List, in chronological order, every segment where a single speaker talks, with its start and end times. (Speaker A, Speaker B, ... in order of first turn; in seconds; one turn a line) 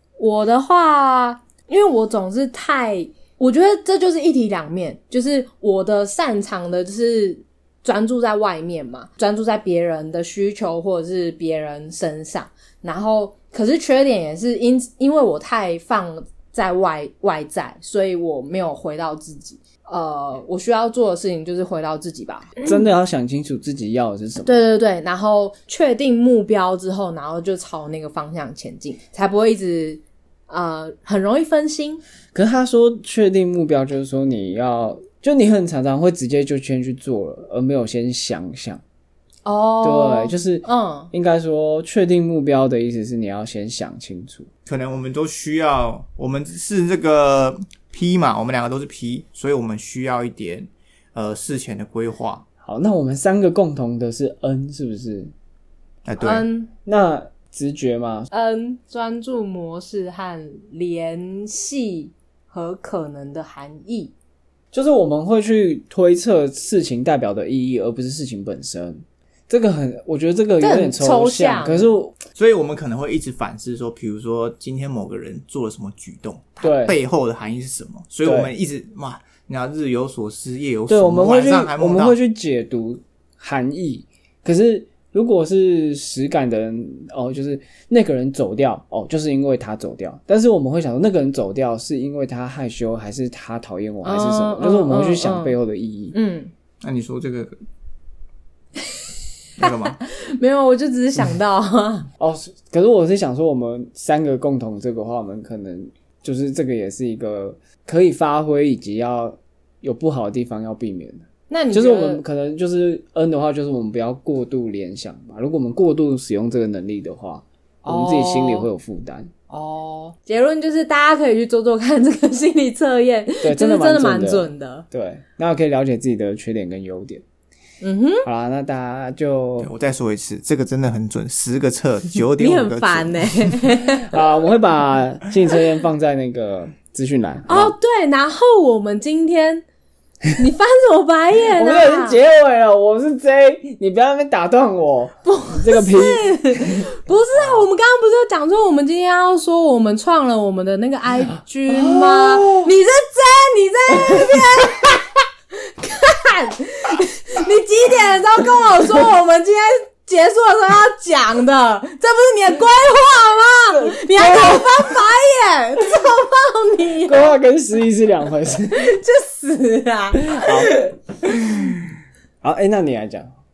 Speaker A: 0.2-22.9
Speaker B: 22.6-24.6
Speaker A: 24.4-32.0
Speaker B: 32.3-38.8
Speaker A: 39.4-41.1
Speaker B: 39.8-44.5
Speaker C: 44.7-52.5
Speaker B: 52.6-55.3
Speaker C: 56.1-56.5
Speaker A: 56.2-56.7
Speaker B: 56.9-58.3
Speaker A: 58.3-64.1
Speaker B: 64.7-72.2
Speaker A: 70.6-71.9
Speaker C: 72.3-82.2
Speaker B: 76.6-77.0
Speaker B: 78.2-78.5
Speaker B: 80.9-96.2
Speaker A: 94.0-95.6
Speaker A: 96.1-96.5
Speaker C: 96.8-97.6
Speaker A: 99.6-102.1
Speaker C: 99.6-100.0
Speaker B: 102.2-119.3
Speaker A: 111.5-112.2
Speaker A: 117.9-118.7
Speaker A: 119.5-124.9
Speaker B: 123.4-127.2
Speaker A: 127.8-128.2
Speaker B: 128.2-129.7
Speaker C: 129.6-133.6
Speaker A: 132.4-134.2
Speaker B: 133.8-137.7
Speaker A: 137.5-139.6
Speaker A: 140.4-142.2
Speaker B: 141.6-146.9
Speaker A: 145.2-155.0
Speaker B: 151.7-152.7
Speaker A: 155.7-167.4
Speaker B: 163.7-164.9
Speaker B: 167.1-168.9
Speaker A: 168.7-171.4
Speaker B: 170.2-170.8
Speaker B: 172.4-173.3